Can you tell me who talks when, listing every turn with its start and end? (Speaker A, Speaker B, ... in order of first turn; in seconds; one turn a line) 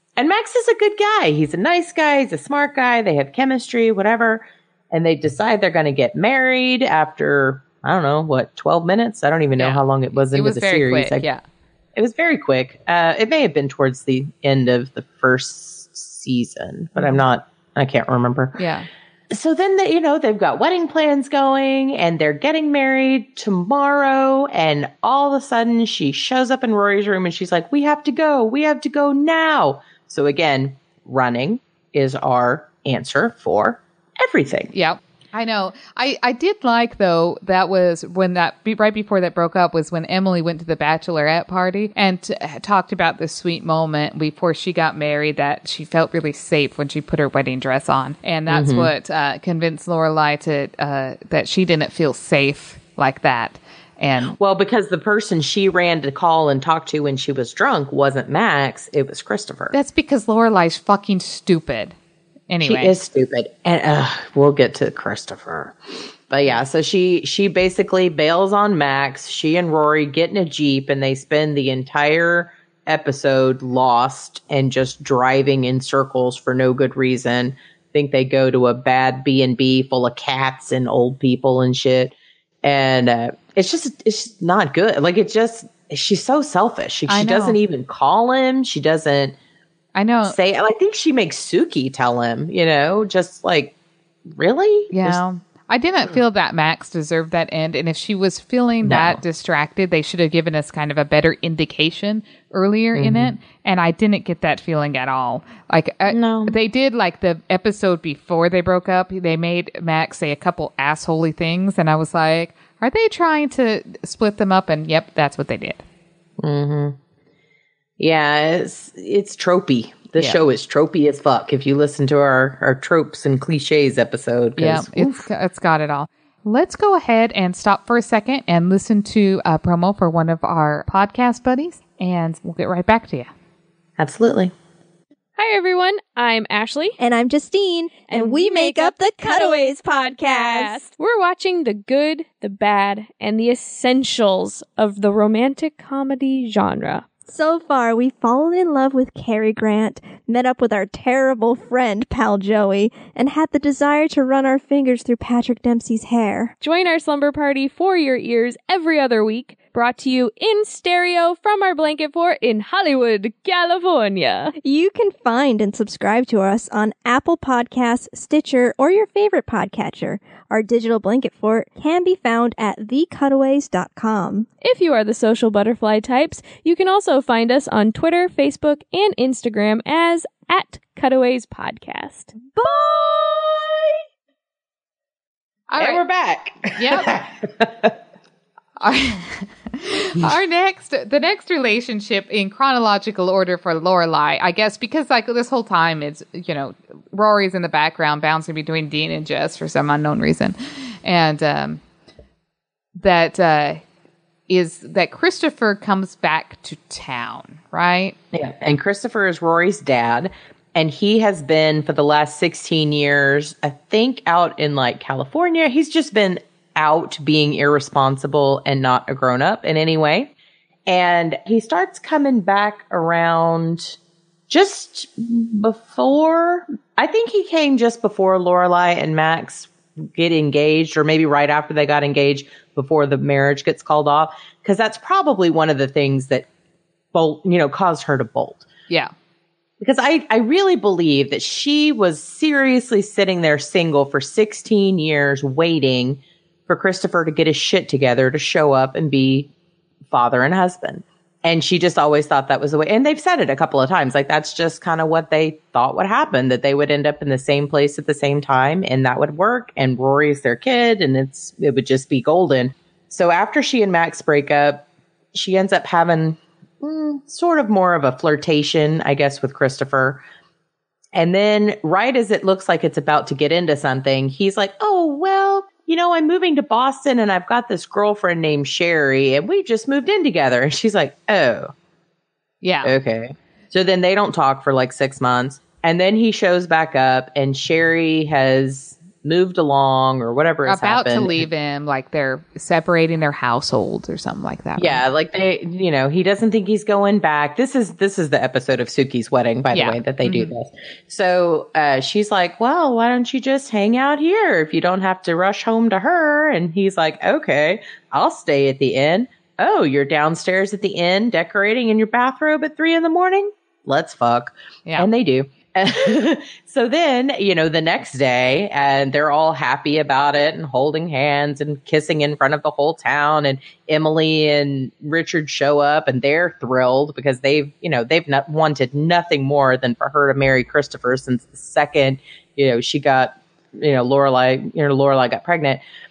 Speaker A: 0.2-11.3
Speaker B: 9.6-11.4
Speaker A: 11.9-18.6
Speaker B: 18.6-18.9
Speaker A: 19.3-34.7
Speaker B: 34.7-54.3
Speaker A: 48.5-48.9
Speaker A: 54.3-59.7
Speaker B: 59.7-62.0
Speaker B: 62.5-62.9
Speaker A: 62.6-65.8
Speaker A: 66.3-89.3
Speaker B: 87.1-87.6
Speaker B: 89.9-90.3
Speaker A: 90.2-93.7
Speaker A: 94.2-95.2
Speaker B: 94.9-115.8
Speaker A: 98.8-99.2
Speaker A: 102.9-103.3
Speaker A: 106.1-106.6
Speaker A: 116.4-117.0
Speaker A: 118.0-125.3
Speaker B: 124.6-133.3
Speaker A: 134.0-134.5
Speaker C: 135.4-137.0
Speaker D: 137.0-140.9
Speaker C: 138.1-147.1
Speaker D: 147.3-156.5
Speaker C: 156.6-164.5
Speaker D: 164.6-174.5
Speaker C: 174.6-183.3
Speaker B: 185.7-186.0
Speaker A: 185.8-187.9
Speaker B: 186.8-187.2
Speaker B: 188.8-201.8
Speaker B: 202.9-203.8
Speaker B: 204.5-208.2
Speaker A: 208.3-220.3
Speaker A: 220.9-224.0
Speaker A: 224.5-236.5
Speaker A: 237.1-238.7
Speaker A: 239.8-249.5
Speaker A: 250.1-270.2
Speaker A: 271.1-281.7
Speaker B: 282.6-282.9
Speaker A: 282.8-291.4
Speaker B: 290.6-295.0
Speaker A: 294.8-335.8
Speaker B: 299.7-300.5